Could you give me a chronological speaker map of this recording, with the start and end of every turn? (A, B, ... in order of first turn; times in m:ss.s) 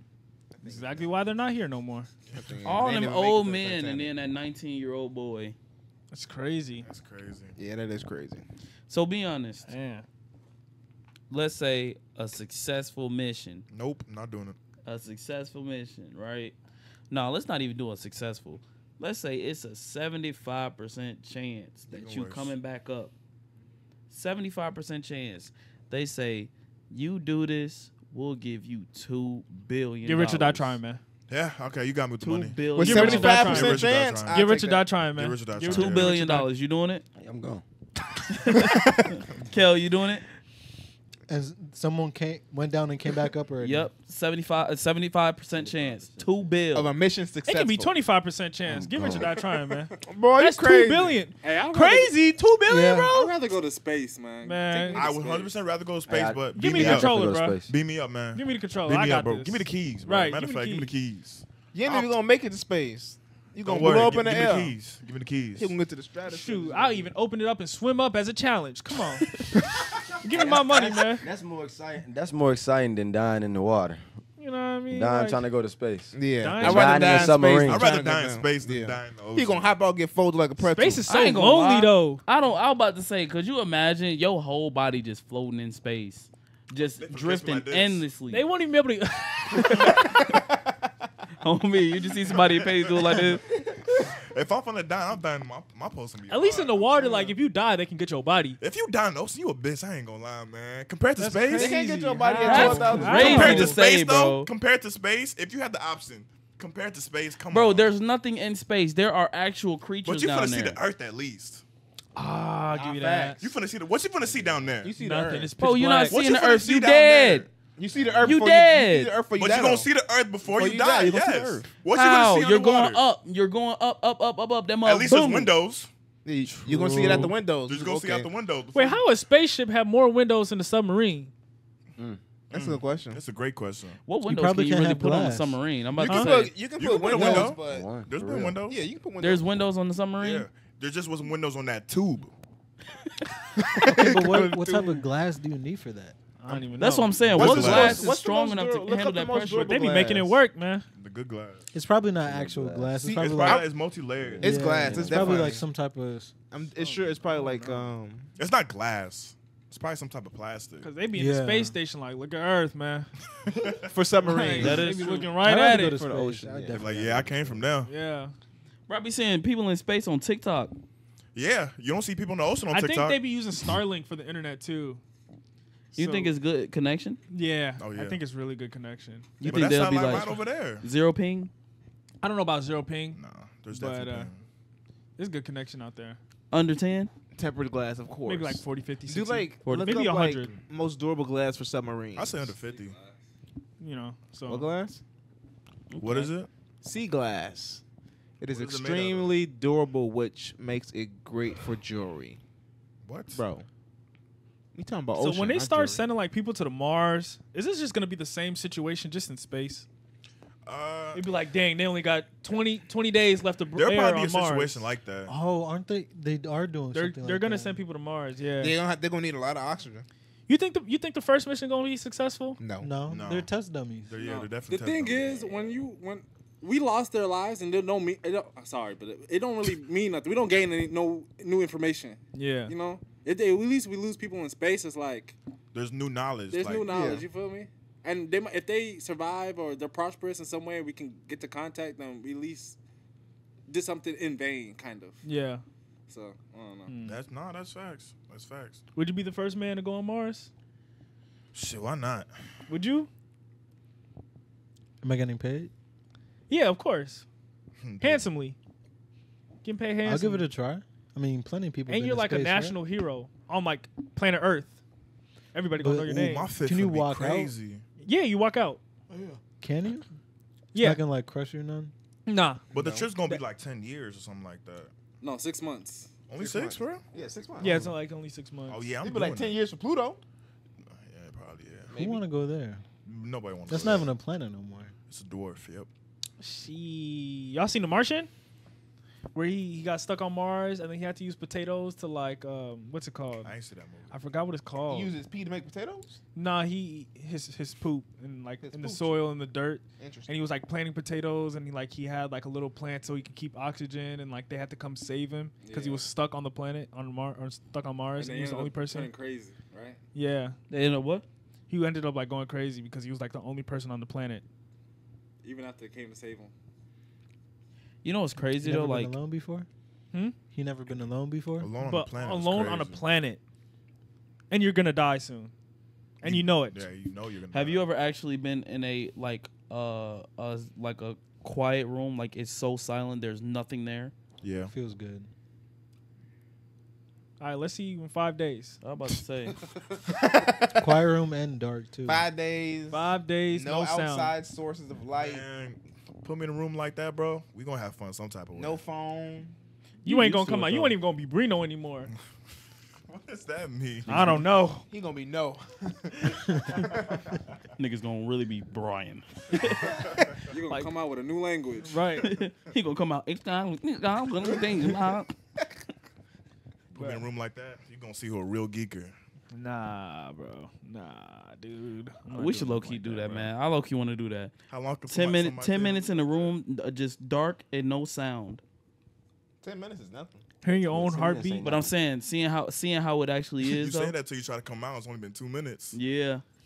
0:00.6-0:01.1 A
0:00.6-0:02.1 B
0:02.3-0:02.8 C
0:02.4-0:04.1 A
0:02.6-0:05.6 D
0:06.1-0:06.9 B
0:06.8-0:07.6 C
0:07.6-0:08.4 A
0:08.9-0:09.7 D
0:09.7-0:10.0 B
0:11.3-0:13.6 D
0:13.7-0:14.6 C
0:14.8-0:16.5 D
0:17.1-0:23.1 D
0:21.9-0:22.5 C
0:24.1-0:30.8 D
0:30.0-0:31.0 B
0:31.3-0:36.3 C
0:32.2-0:33.6 D
0:32.7-0:36.5 B
0:32.8-0:34.9 A
0:35.6-0:37.0 D
0:37.1-0:37.6 E
0:38.3-0:40.2 D
0:41.3-0:43.9 F
0:43.6-0:46.9 D
0:45.6-0:46.4 E
0:46.7-0:48.0 A
0:47.4-0:53.3 B
0:48.7-0:49.3 E
0:49.1-0:49.9 G
0:50.0-0:51.2 A
0:51.4-0:52.2 G
0:52.6-0:53.2 F
0:53.1-0:55.5 G
0:54.4-0:55.1 B
0:54.9-1:02.2 C
0:56.1-0:57.7 E
0:56.5-0:57.6 B
0:58.3-1:01.0 B
1:01.7-1:04.8 A
1:03.6-1:05.8 C
1:05.5-1:07.1 A
1:06.2-1:09.4 B
1:10.2-1:11.2 B
1:11.2-1:14.0 E
1:14.4-1:15.4 B
1:14.9-1:17.8 E
1:16.1-1:21.0 A
1:16.4-1:17.4 B
1:17.5-1:19.7 C
1:20.6-1:22.2 B
1:21.0-1:28.4 D
1:26.8-1:28.1 C
1:28.3-1:30.1 B
1:31.4-1:33.4 D
1:34.2-1:37.3 C
1:36.3-1:38.6 B
1:38.6-1:41.8 C
1:41.2-1:43.8 B
1:41.5-1:43.7 A
1:42.3-1:44.5 D
1:42.7-1:47.9 C
1:47.5-1:50.8 D
1:50.0-1:51.6 C
1:52.2-1:53.4 B
1:52.7-1:53.3 E
1:53.4-1:54.9 C
1:54.3-1:54.6 E
1:54.8-1:55.5 A
1:54.9-1:56.2 B
1:55.6-1:57.5 D
1:56.1-1:57.5 C
1:57.8-1:59.9 A
1:58.0-1:58.3 C
1:58.2-1:59.1 D
1:59.4-2:03.0 C
2:00.4-2:01.7 A
2:01.9-2:05.5 D
2:04.8-2:05.9 C
2:06.2-2:08.3 A
2:06.4-2:09.0 C
2:08.7-2:11.3 B
2:12.5-2:14.0 C
2:12.5-2:13.2 A
2:14.0-2:16.5 D
2:14.2-2:15.6 F
2:16.0-2:18.0 A
2:16.1-2:16.5 B
2:16.6-2:18.8 C
2:17.4-2:18.6 E
2:18.6-2:19.6 A
2:19.2-2:20.5 D
2:20.2-2:22.3 C
2:23.8-2:26.6 F
2:23.8-2:24.7 A
2:24.2-2:25.0 B
2:26.4-2:27.7 B
2:26.8-2:29.8 D
2:27.3-2:28.1 C
2:27.3-2:30.4 A
2:29.4-2:30.8 B
2:30.9-2:31.7 C
2:31.7-2:33.7 F
2:32.2-2:33.3 E
2:33.2-2:34.4 C
2:34.2-2:35.5 E
2:34.4-2:36.3 F
2:34.4-2:35.7 A
2:36.5-2:38.3 A
2:36.8-2:37.9 B
2:38.4-2:41.0 C
2:40.8-2:43.1 B
2:41.1-2:41.8 F
2:43.4-2:43.9 C
2:43.8-2:45.1 A
2:44.2-2:46.4 B
2:44.5-2:45.5 D
2:45.3-2:47.6 F
2:46.1-2:46.8 A
2:46.8-2:47.9 C
2:47.8-2:48.3 B
2:48.9-2:50.8 D
2:51.3-2:53.7 C
2:52.7-2:55.0 B
2:55.9-2:56.3 B
2:56.0-2:57.2 D
2:57.3-2:59.4 B
2:57.8-2:58.2 C
2:59.4-3:01.5 D
2:59.5-3:00.8 C
3:02.2-3:04.3 B
3:03.1-3:04.4 C
3:05.2-3:06.2 B
3:06.5-3:07.1 D
3:07.3-3:12.6 A
3:08.2-3:10.6 B
3:09.6-3:09.9 D
3:12.1-3:13.0 C
3:12.6-3:13.2 G
3:13.8-3:14.7 B
3:14.5-3:15.0 A
3:15.9-3:16.3 D
3:16.0-3:16.5 C
3:16.8-3:17.8 A
3:18.4-3:22.4 A
3:18.5-3:19.4 C
3:23.0-3:23.4 C
3:23.3-3:23.6 A
3:24.7-3:26.0 A
3:25.1-3:29.8 B
3:30.6-3:31.3 C
3:31.1-3:35.0 B
3:33.7-3:35.3 C
3:35.3-3:37.8 F
3:36.9-3:38.8 B
3:38.6-3:40.1 A
3:40.5-3:42.6 B
3:42.6-3:42.9 A
3:42.8-3:44.1 F
3:43.1-3:43.5 C
3:44.0-3:45.7 C
3:44.2-3:55.4 G
3:52.3-3:52.7 B
3:55.7-3:57.0 C
3:56.5-4:02.8 G
3:56.8-3:57.3 A
4:03.7-4:05.2 G
4:05.2-4:05.6 B
4:06.1-4:06.9 G
4:06.9-4:07.2 B
4:07.0-4:08.8 C
4:08.9-4:10.5 B
4:11.5-4:12.3 C
4:12.7-4:13.1 B
4:15.0-4:15.7 F
4:16.5-4:17.2 B
4:17.8-4:18.2 C
4:18.0-4:18.6 B
4:19.6-4:20.5 B
4:20.0-4:22.8 F
4:21.9-4:24.8 B
4:25.5-4:26.5 B
4:25.8-4:27.5 F
4:26.1-4:27.8 C
4:28.0-4:28.8 B
4:29.6-4:30.0 F
4:30.7-4:31.0 B
4:30.7-4:31.9 F
4:32.2-4:32.7 B
4:32.7-4:34.9 C
4:32.7-4:33.1 A
4:35.2-4:36.1 G
4:36.3-4:37.0 C
4:36.4-4:37.9 A
4:37.6-4:38.9 B
4:38.7-4:39.6 C
4:39.0-4:40.2 A
4:40.9-4:41.9 C
4:41.9-4:42.2 A
4:41.9-4:42.8 F
4:43.0-4:44.1 C
4:43.7-4:44.9 F
4:45.1-4:45.9 C
4:46.4-4:48.3 B
4:49.3-4:55.1 B
4:53.4-4:54.1 C
4:54.8-4:56.2 A
4:56.3-5:09.1 B
4:58.6-4:59.4 A
5:00.0-5:00.3 A
5:05.6-5:06.0 G
5:08.2-5:10.0 G
5:10.1-5:10.6 B
5:10.7-5:11.2 D
5:11.7-5:14.4 B
5:15.4-5:16.5 G
5:18.0-5:19.1 D
5:18.4-5:19.7 F
5:20.5-5:21.7 F
5:21.6-5:23.0 C
5:21.8-5:23.4 B
5:24.5-5:25.5 B
5:26.2-5:26.9 B
5:26.2-5:27.8 C
5:27.5-5:34.1 D
5:34.4-5:34.7 C
5:34.6-5:35.3 F
5:37.4-5:38.8 B
5:38.8-5:39.6 D
5:40.1-5:40.9 A
5:40.8-5:42.3 F
5:42.0-5:45.4 A
5:42.9-5:44.3 B
5:45.1-5:48.8 C
5:48.5-5:49.5 A
5:50.0-5:52.1 B
5:50.0-5:50.9 D
5:50.1-5:50.7 C
5:53.1-5:54.4 C
5:54.1-5:54.8 B
5:54.9-5:57.2 A
5:56.1-5:56.8 C
5:57.8-6:00.0 D
5:59.7-6:00.4 C
6:00.5-6:02.0 G
6:01.8-6:02.4 B
6:02.2-6:05.3 D
6:06.9-6:09.1 C
6:07.0-6:07.3 B
6:09.5-6:13.2 B
6:12.3-6:14.5 D
6:13.2-6:13.5 C
6:14.7-6:16.6 C
6:15.0-6:18.6 D
6:19.6-6:20.4 A
6:20.6-6:21.6 B
6:20.7-6:21.9 E
6:21.6-6:24.1 D
6:23.6-6:26.0 C
6:25.9-6:26.4 D